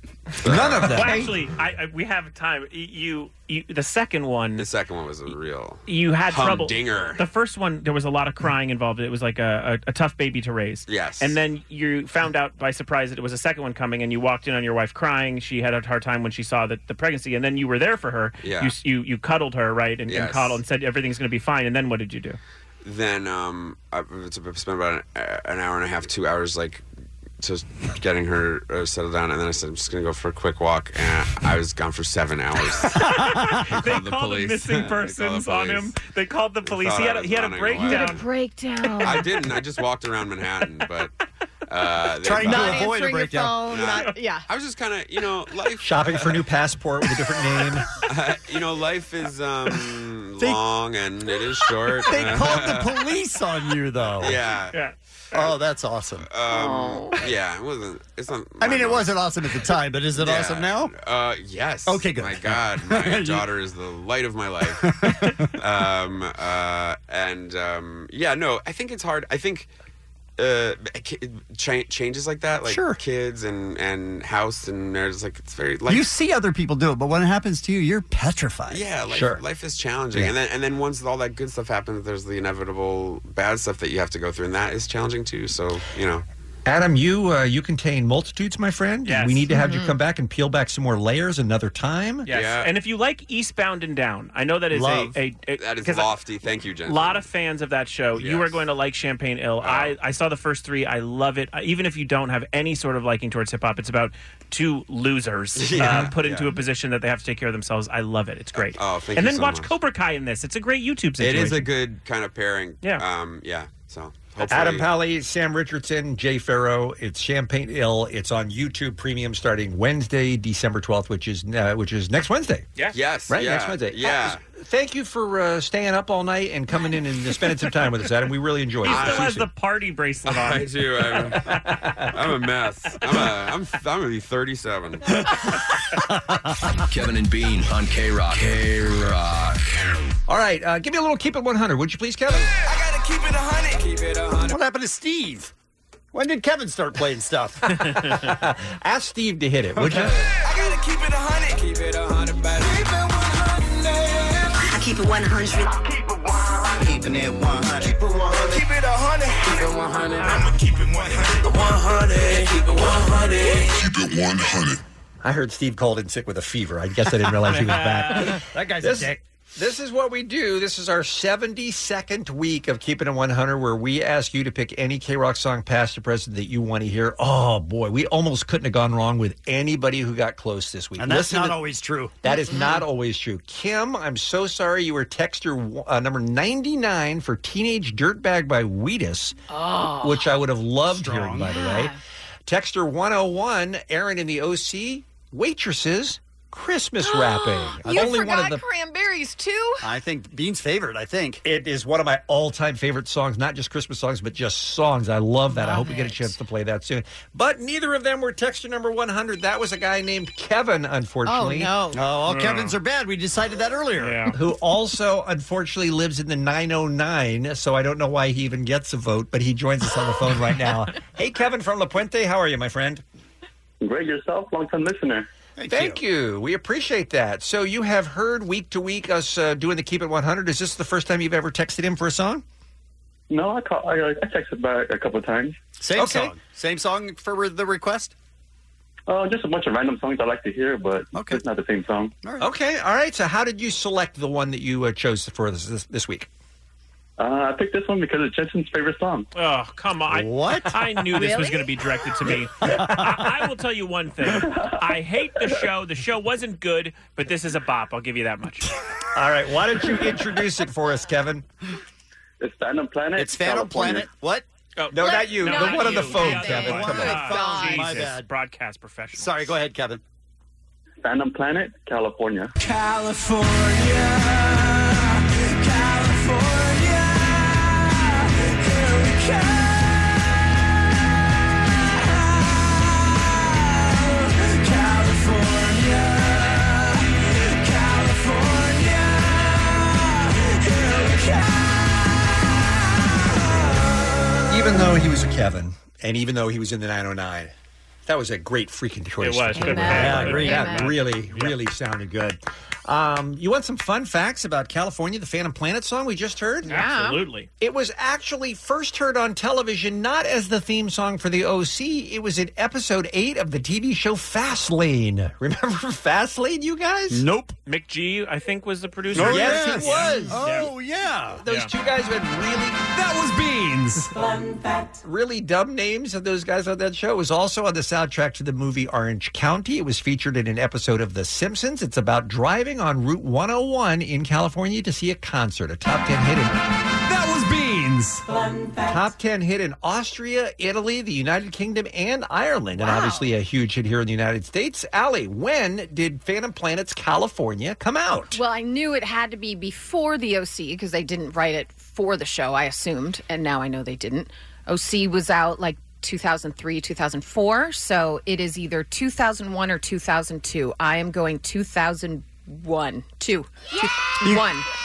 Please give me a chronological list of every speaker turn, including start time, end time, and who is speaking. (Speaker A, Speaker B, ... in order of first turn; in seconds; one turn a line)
Speaker A: 0.4-1.2
Speaker B: 0.4-1.3
Speaker C: 0.8-4.7
Speaker A: 4.6-7.2
Speaker C: 5.9-22.4
Speaker A: 10.9-11.4
Speaker A: 18.4-18.7
Speaker A: 20.1-20.6
Speaker A: 22.8-26.8
Speaker A: 27.4-33.0
Speaker C: 32.8-38.2
Speaker B: 33.2-33.7
Speaker A: 33.7-36.0
Speaker A: 36.6-38.2
Speaker D: 37.9-39.3
Speaker A: 39.0-41.1
Speaker A: 41.7-42.8
Speaker B: 42.2-43.8
Speaker D: 42.4-44.4
Speaker A: 43.7-46.5
Speaker C: 43.8-44.1
Speaker E: 45.8-47.9
Speaker A: 48.0-53.0
Speaker B: 52.1-54.4
Speaker A: 54.0-54.8
Speaker B: 55.3-56.3
Speaker A: 56.2-59.3
Speaker D: 56.5-57.2
Speaker B: 58.6-60.9
Speaker A: 60.2-64.8
Speaker B: 61.9-63.5
Speaker B: 64.7-65.5
Speaker A: 65.6-69.7
Speaker A: 70.4-76.1
Speaker B: 72.7-73.0
Speaker B: 75.9-78.9
Speaker A: 78.7-86.3
Speaker E: 79.1-79.4
Speaker E: 86.7-92.3
Speaker C: 89.0-89.5
Speaker D: 89.5-89.9
Speaker C: 92.3-96.2
Speaker A: 92.3-92.7
Speaker B: 94.7-95.2
Speaker A: 95.6-97.2
Speaker C: 96.8-111.7
Speaker A: 98.2-98.6
Speaker A: 99.6-100.0
Speaker A: 105.6-106.5
Speaker A: 108.5-109.7
Speaker A: 111.2-114.9
Speaker E: 114.5-122.7
Speaker A: 122.9-124.4
Speaker E: 123.3-129.3
Speaker C: 128.8-130.7
Speaker A: 128.8-129.5
Speaker A: 130.3-131.5
Speaker E: 131.5-132.1
Speaker A: 132.1-135.2
Speaker B: 135.9-136.5
Speaker F: 136.9-139.8
Speaker E: 140.3-142.5
Speaker G: 142.4-144.6
Speaker B: 144.4-145.5
Speaker B: 146.1-147.6
Speaker E: 147.9-150.2
Speaker B: 149.8-150.2
Speaker G: 150.2-154.8
Speaker G: 155.5-164.8
Speaker B: 157.2-157.8
Speaker E: 165.2-181.6
Speaker C: 167.5-168.3
Speaker B: 168.2-169.2
Speaker B: 181.0-182.2
Speaker E: 182.2-189.4
Speaker D: 182.2-182.8
Speaker D: 189.5-190.3
Speaker E: 190.0-191.9
Speaker B: 190.9-191.6
Speaker D: 191.5-192.0
Speaker E: 192.5-198.6
Speaker D: 197.0-199.8
Speaker B: 199.8-201.4
Speaker E: 201.4-211.8
Speaker D: 205.5-206.3
Speaker D: 211.2-212.0
Speaker B: 211.9-214.3
Speaker C: 212.3-212.8
Speaker C: 214.0-214.3
Speaker E: 214.3-223.0
Speaker H: 223.8-225.3
Speaker B: 225.6-226.0
Speaker E: 225.7-232.4
Speaker H: 233.3-235.6
Speaker B: 235.8-238.1
Speaker E: 236.0-236.3
Speaker H: 239.1-242.1
Speaker B: 241.1-241.4
Speaker B: 242.2-242.5
Speaker E: 242.4-246.3
Speaker H: 247.2-249.3
Speaker C: 249.4-258.7
Speaker B: 250.1-250.8
Speaker D: 251.2-251.7
Speaker B: 252.6-253.1
Speaker H: 254.4-254.8
Speaker E: 259.1-261.5
Speaker H: 262.4-264.1
Speaker B: 263.2-264.4
Speaker C: 264.8-269.6
Speaker E: 264.9-267.3
Speaker D: 265.0-268.0
Speaker B: 266.3-268.3
Speaker B: 269.1-270.0
Speaker H: 271.0-272.5
Speaker G: 272.7-274.8
Speaker G: 275.6-277.9
Speaker G: 278.6-279.8
Speaker G: 284.4-286.8
Speaker G: 287.6-291.6
Speaker E: 294.5-297.5
Speaker E: 298.1-306.8
Speaker C: 299.2-301.6
Speaker D: 299.6-300.9
Speaker B: 299.8-300.7
Speaker D: 306.6-307.2
Speaker C: 306.7-307.5
Speaker E: 307.6-317.3
Speaker B: 317.1-317.6
Speaker C: 317.7-320.7
Speaker B: 319.1-321.4
Speaker E: 319.1-320.4
Speaker E: 321.4-322.9
Speaker B: 323.0-324.1
Speaker E: 325.0-336.6
Speaker B: 337.1-337.9
Speaker E: 338.9-348.4
Speaker D: 342.8-343.3
Speaker D: 348.3-364.7